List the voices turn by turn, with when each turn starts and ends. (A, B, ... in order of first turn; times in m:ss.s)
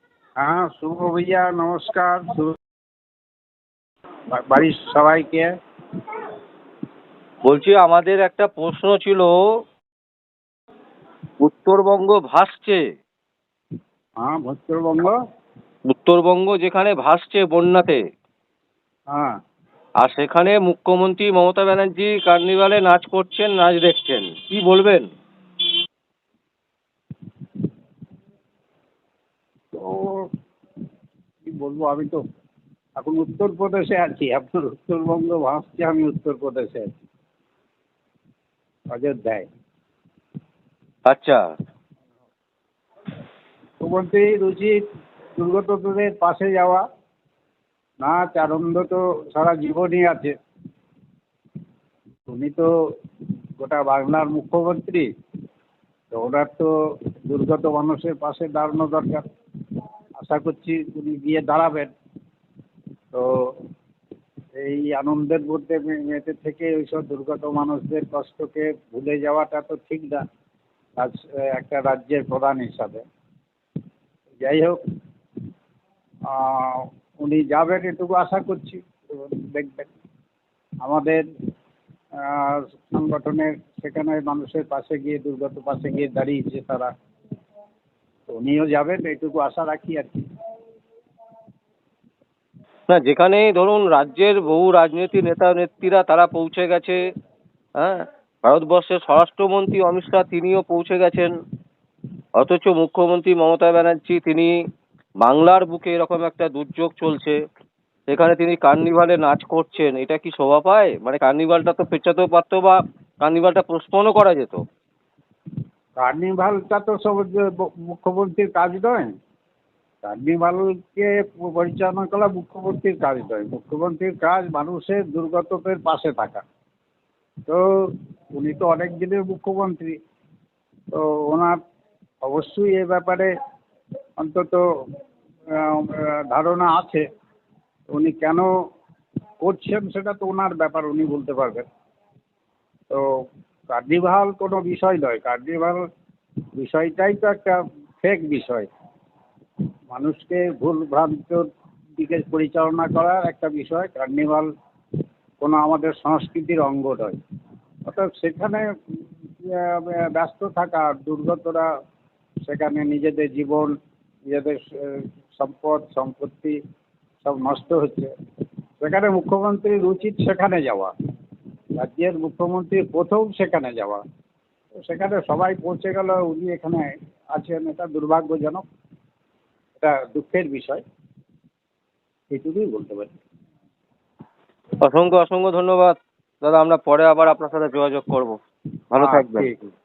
0:00.4-0:02.6 A
0:04.3-0:05.5 A
0:07.4-0:09.4 B
0:11.4-0:12.8 B
0:14.2-0:15.2 A
0:15.9-0:18.0 B
0:19.1-0:19.4 A
0:20.0-0:25.1 B
0:29.7-0:30.3 A
0:31.4-0:32.2 A
0:33.0-0:37.0 A
0:38.9-0:39.5 A
0:41.1-0:41.4 B
0:43.8-0:44.8 A
0:45.4-0:46.8 A
0:48.0-0:50.3 A
0:52.3-0:52.7 A
0:53.6-0:55.1 A
0:56.1-0:56.7 A
0:57.3-0:59.2 A
1:00.2-1:01.9 A
1:03.1-1:03.6 A
1:04.6-1:10.2 A
1:11.0-1:13.0 A
1:14.4-1:14.8 A
1:16.3-1:19.9 A
1:20.8-1:21.2 A
1:22.2-1:26.9 A
1:28.3-1:30.2 A
1:32.9-1:37.0 B
1:37.8-1:41.3 B
1:42.4-1:44.5 B
1:45.2-1:47.4 B
1:48.1-1:54.6 B
1:56.0-1:59.1 A
2:00.0-2:06.4 A
2:07.5-2:10.0 A
2:10.9-2:11.6 A
2:12.2-2:13.3 A
2:14.2-2:14.6 A
2:15.5-2:17.0 A
2:17.9-2:18.5 A
2:19.4-2:21.6 A
2:23.7-2:25.8 A
2:26.6-2:28.7 A
2:29.9-2:34.5 A
2:35.4-2:37.2 A
2:37.9-2:38.7 A
2:39.4-2:41.7 A
2:42.5-2:43.7 A
2:44.3-2:46.6 A
2:47.2-2:48.1 A
2:48.8-2:50.9 A
2:51.8-2:54.0 A
2:54.8-2:58.6 A
2:59.8-3:00.8 A
3:02.3-3:03.1 A
3:04.8-3:08.4 B
3:08.9-3:09.5 B
3:09.0-3:09.7 A